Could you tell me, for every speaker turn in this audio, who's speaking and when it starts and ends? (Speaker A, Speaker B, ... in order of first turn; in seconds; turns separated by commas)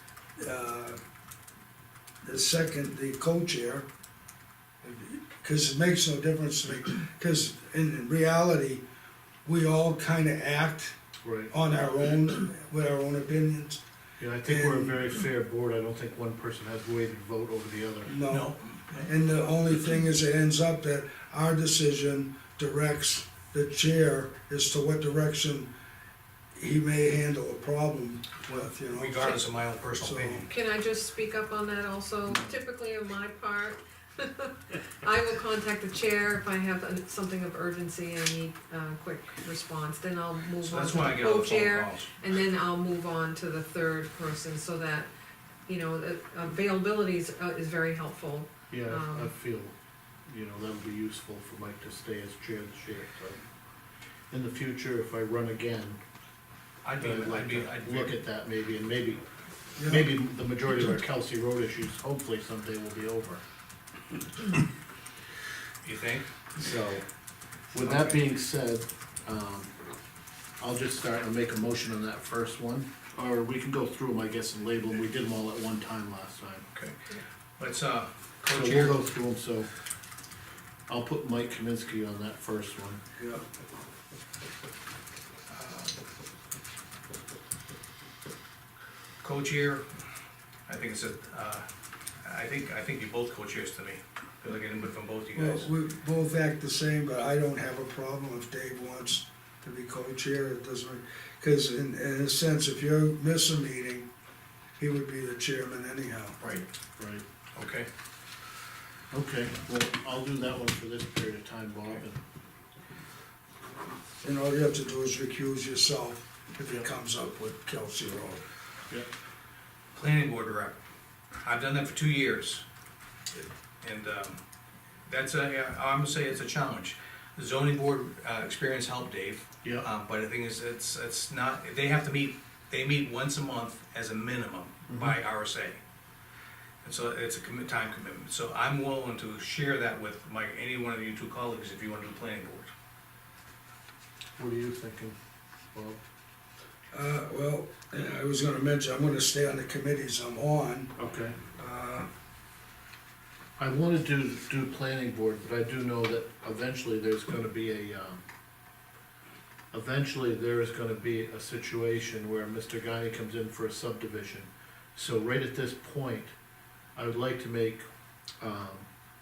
Speaker A: 0.4-1.0, Speaker A: 2.2-3.9, Speaker A: 4.8-8.8, Speaker A: 9.4-10.9, Speaker B: 11.2-11.5, Speaker A: 11.5-13.8, Speaker B: 14.2-18.1, Speaker A: 14.4-15.1, Speaker A: 18.1-25.7, Speaker C: 18.3-19.1, Speaker A: 26.6-29.4, Speaker C: 28.9-30.5, Speaker A: 30.0-30.5, Speaker D: 30.5-45.1, Speaker C: 40.6-42.1, Speaker D: 45.7-49.3, Speaker B: 48.7-49.7, Speaker B: 50.3-53.4, Speaker B: 54.3-56.0, Speaker C: 56.8-58.2, Speaker B: 57.0-59.2, Speaker B: 59.8-63.4, Speaker C: 65.8-66.3, Speaker B: 66.6-67.0, Speaker B: 67.7-69.7, Speaker C: 67.8-68.2, Speaker B: 70.6-76.7, Speaker C: 77.6-79.0, Speaker B: 78.5-79.7, Speaker B: 80.9-83.0, Speaker A: 83.2-83.4, Speaker C: 85.5-86.0, Speaker C: 89.2-89.8, Speaker C: 90.7-91.7, Speaker C: 92.2-95.7, Speaker A: 95.3-104.1, Speaker A: 104.8-106.4, Speaker C: 106.4-106.7, Speaker B: 107.0-107.2, Speaker C: 107.5-107.9, Speaker B: 109.1-112.2, Speaker A: 114.2-118.4, Speaker C: 119.9-120.8, Speaker C: 121.4-122.6, Speaker C: 123.3-124.4, Speaker C: 125.1-135.8, Speaker B: 134.9-135.2, Speaker C: 136.8-142.7, Speaker B: 144.4-145.2, Speaker B: 145.7-146.0, Speaker A: 146.9-150.9, Speaker B: 151.0-151.4, Speaker A: 151.6-152.1, Speaker B: 153.6-158.2, Speaker B: 159.7-166.3, Speaker B: 167.0-167.9, Speaker B: 168.4-168.9